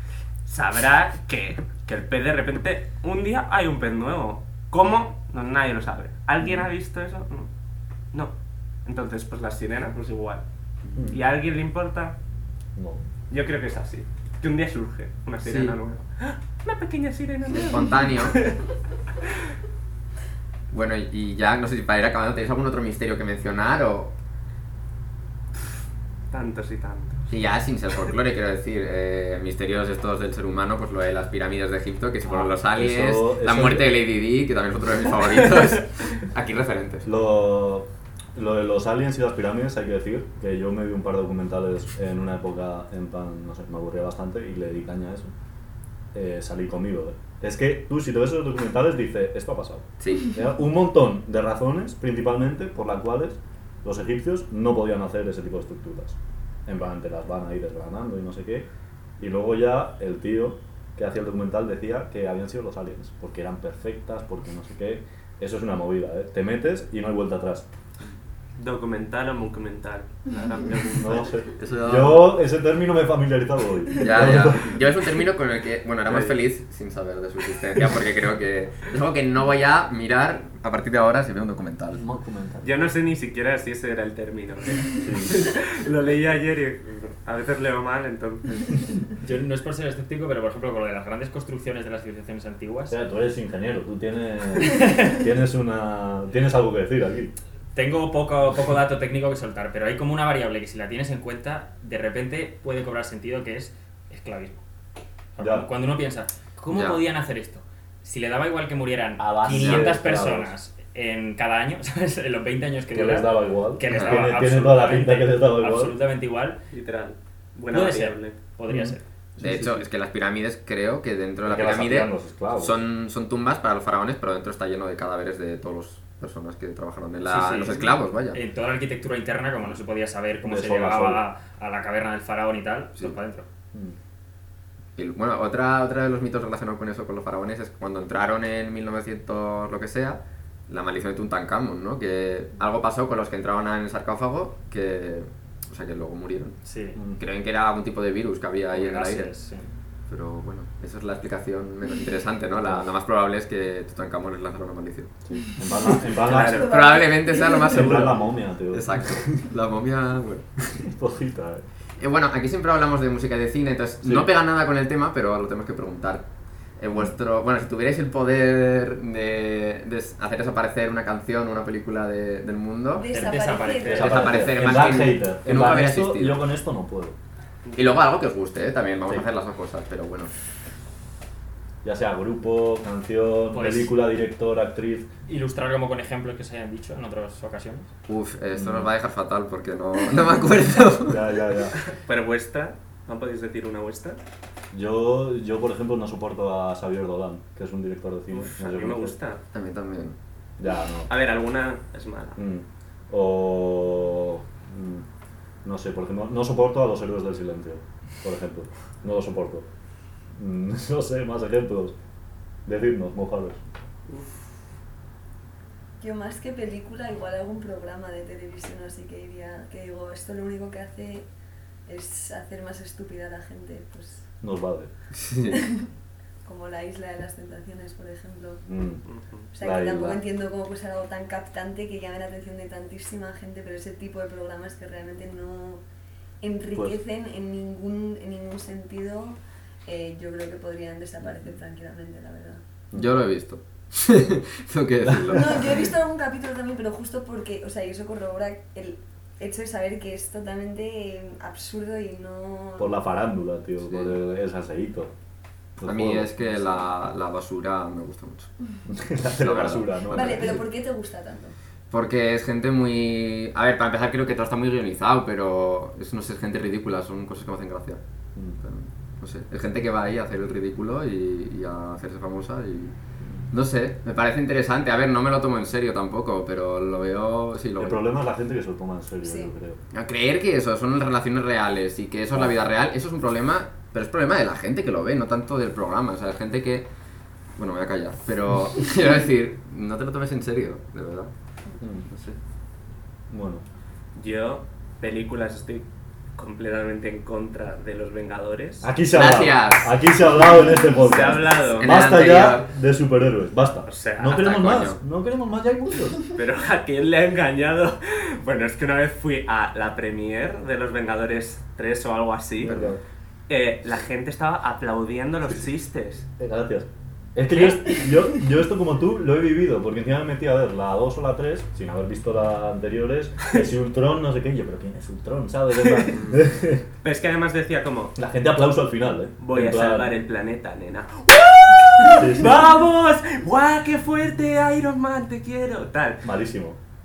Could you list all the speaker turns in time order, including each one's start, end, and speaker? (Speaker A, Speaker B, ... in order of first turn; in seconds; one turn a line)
Speaker A: 0.4-7.5
Speaker A: 8.8-10.4
Speaker A: 11.1-12.2
Speaker B: 12.8-13.0
Speaker A: 13.3-18.6
Speaker C: 15.4-15.8
Speaker C: 17.5-18.4
Speaker C: 20.7-24.1
Speaker A: 26.3-27.3
Speaker C: 27.3-37.1
Speaker B: 32.2-33.9
Speaker B: 37.0-45.3
Speaker B: 46.1-67.7
Speaker C: 50.0-50.4
Speaker A: 68.6-71.3
Speaker B: 70.9-74.8
Speaker C: 71.6-72.4
Speaker C: 74.0-82.0
Speaker B: 81.9-82.8
Speaker A: 82.6-88.7
Speaker B: 85.0-85.4
Speaker D: 89.2-93.0
Speaker B: 92.9-97.3
Speaker D: 94.8-95.1
Speaker D: 97.7-104.6
Speaker D: 105.3-116.6
Speaker B: 105.4-105.7
Speaker C: 106.7-107.0
Speaker B: 109.2-110.5
Speaker C: 109.4-109.9
Speaker B: 112.9-115.9
Speaker C: 113.9-114.2
Speaker A: 116.7-118.4
Speaker D: 117.7-119.0
Speaker B: 118.7-119.8
Speaker C: 119.4-128.4
Speaker B: 121.4-122.7
Speaker D: 127.2-133.4
Speaker B: 130.4-131.2
Speaker C: 134.9-146.6
Speaker D: 146.6-147.0
Speaker B: 146.9-147.2
Speaker C: 147.2-149.3
Speaker D: 148.7-149.7
Speaker C: 150.1-155.1
Speaker B: 155.2-156.8
Speaker C: 156.1-160.8
Speaker A: 156.2-156.8
Speaker E: 156.4-157.7
Speaker B: 157.6-159.4
Speaker B: 160.8-161.6
Speaker C: 162.0-166.2
Speaker B: 164.0-164.3
Speaker C: 166.8-173.1
Speaker E: 172.9-174.3
Speaker D: 173.1-174.5
Speaker B: 173.8-177.2
Speaker C: 173.9-176.4
Speaker A: 177.7-177.9
Speaker C: 177.8-180.3
Speaker B: 181.8-185.1
Speaker D: 183.5-183.9
Speaker D: 185.3-187.9
Speaker C: 188.1-191.3
Speaker B: 188.5-188.9
Speaker B: 191.1-191.8
Speaker A: 191.8-194.2
Speaker B: 194.7-199.2
Speaker A: 198.3-199.4
Speaker C: 199.5-200.2
Speaker B: 200.6-201.1
Speaker A: 201.1-202.4
Speaker B: 202.4-205.1
Speaker B: 205.6-209.7
Speaker B: 210.4-211.9
Speaker B: 212.6-213.6
Speaker E: 216.0-221.3
Speaker E: 221.9-224.3
Speaker B: 224.4-224.9
Speaker C: 225.1-225.7
Speaker E: 225.5-225.9
Speaker E: 226.4-228.6
Speaker B: 228.6-229.0
Speaker A: 229.0-229.5
Speaker E: 229.5-235.8
Speaker B: 229.6-230.2
Speaker E: 236.4-242.6
Speaker C: 242.9-245.8
Speaker B: 245.0-245.6
Speaker E: 245.3-253.0
Speaker B: 252.8-255.1
Speaker C: 253.9-254.1
Speaker B: 255.8-256.9
Speaker C: 255.8-258.5
Speaker B: 258.9-260.6
Speaker C: 259.2-260.6
Speaker E: 260.1-261.6
Speaker C: 261.9-268.0
Speaker B: 268.4-268.6
Speaker C: 268.6-272.9
Speaker B: 273.2-273.4
Speaker C: 273.5-278.0
Speaker B: 277.8-279.8
Speaker E: 279.2-279.5
Speaker C: 279.9-286.9
Speaker C: 287.6-291.3
Speaker B: 291.8-292.1
Speaker C: 292.1-292.4
Speaker B: 293.3-293.6
Speaker A: 294.1-298.9
Speaker B: 298.8-306.2
Speaker C: 299.1-300.0
Speaker A: 300.9-302.1
Speaker C: 301.8-302.7
Speaker A: 303.9-304.4
Speaker C: 304.3-305.0
Speaker A: 306.3-312.8
Speaker C: 312.6-313.0
Speaker B: 312.6-313.0
Speaker A: 313.5-316.2
Speaker B: 316.4-326.8
Speaker A: 317.6-317.9
Speaker A: 325.7-326.2
Speaker A: 327.0-328.1
Speaker B: 328.1-330.1
Speaker A: 329.4-336.2
Speaker B: 332.0-332.6
Speaker B: 336.2-336.8